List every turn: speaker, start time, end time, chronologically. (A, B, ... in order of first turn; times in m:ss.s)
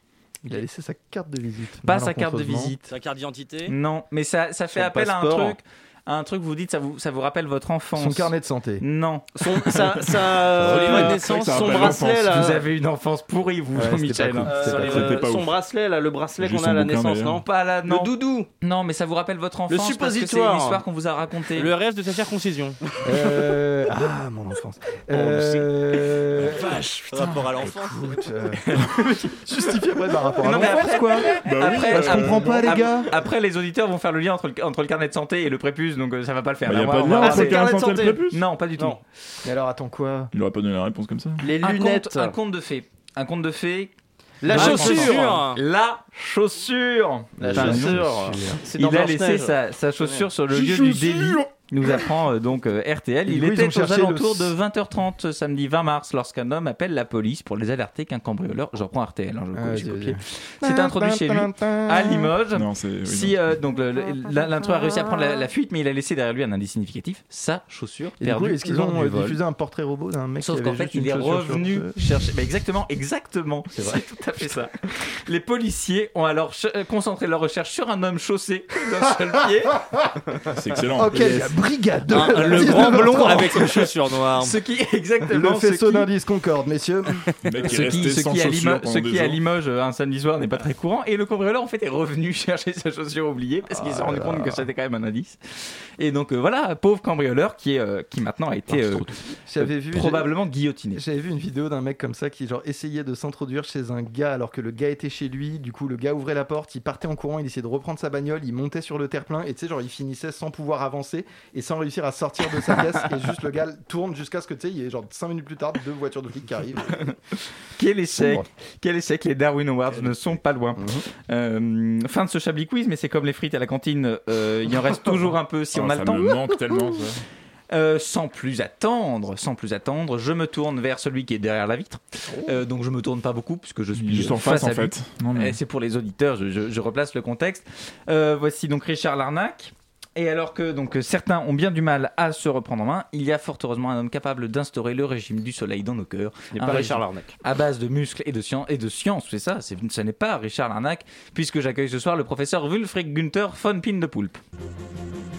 0:00.4-0:02.7 A
0:01.8-0:02.9 B
0:02.9-0:03.7 C
0:03.7-0:09.4 B
0:04.7-0:05.6 D
0:08.0-0:08.8 A
0:09.4-0:12.6 D
0:10.5-0:12.6 E
0:10.7-0:11.4 C
0:12.2-0:15.0 B
0:13.7-0:15.2 A
0:14.4-0:18.5 D
0:14.6-0:15.6 E
0:16.4-0:17.4 E
0:17.4-0:21.7 B
0:19.7-0:20.8 D
0:21.6-0:22.8 C
0:23.0-0:27.0 A
0:25.1-0:28.3 C
0:27.6-0:33.1 A
0:30.4-0:37.7 B
0:31.4-0:32.9 E
0:36.6-0:38.4 E
0:37.2-0:39.0 D
0:38.3-0:39.0 B
0:39.4-0:40.3 A
0:40.3-0:41.4 E
0:41.4-0:42.3 D
0:41.6-0:43.9 B
0:44.4-0:45.4 D
0:44.4-0:48.0 B
0:44.5-0:45.6 C
0:47.4-0:48.6 A
0:47.4-0:50.2 D
0:48.8-1:09.4 B
0:50.5-0:51.4 A
0:53.3-0:54.5 A
0:59.5-1:02.3 A
1:02.5-1:03.6 E
1:08.2-1:12.0 A
1:10.4-1:14.7 B
1:13.7-1:14.5 A
1:15.2-1:19.8 B
1:20.5-1:21.6 E
1:21.0-1:23.8 A
1:22.1-1:24.6 C
1:22.5-1:23.2 B
1:24.4-1:26.1 B
1:25.3-1:27.2 A
1:27.4-1:29.4 E
1:27.6-1:41.0 B
1:33.7-1:34.7 A
1:38.7-1:39.0 E
1:39.4-1:40.3 A
1:40.9-1:57.1 A
1:57.8-2:06.5 B
1:58.1-1:58.4 A
2:00.8-2:01.0 A
2:05.7-2:07.2 E
2:07.7-2:34.4 B
2:14.0-2:15.6 E
2:26.5-2:27.3 D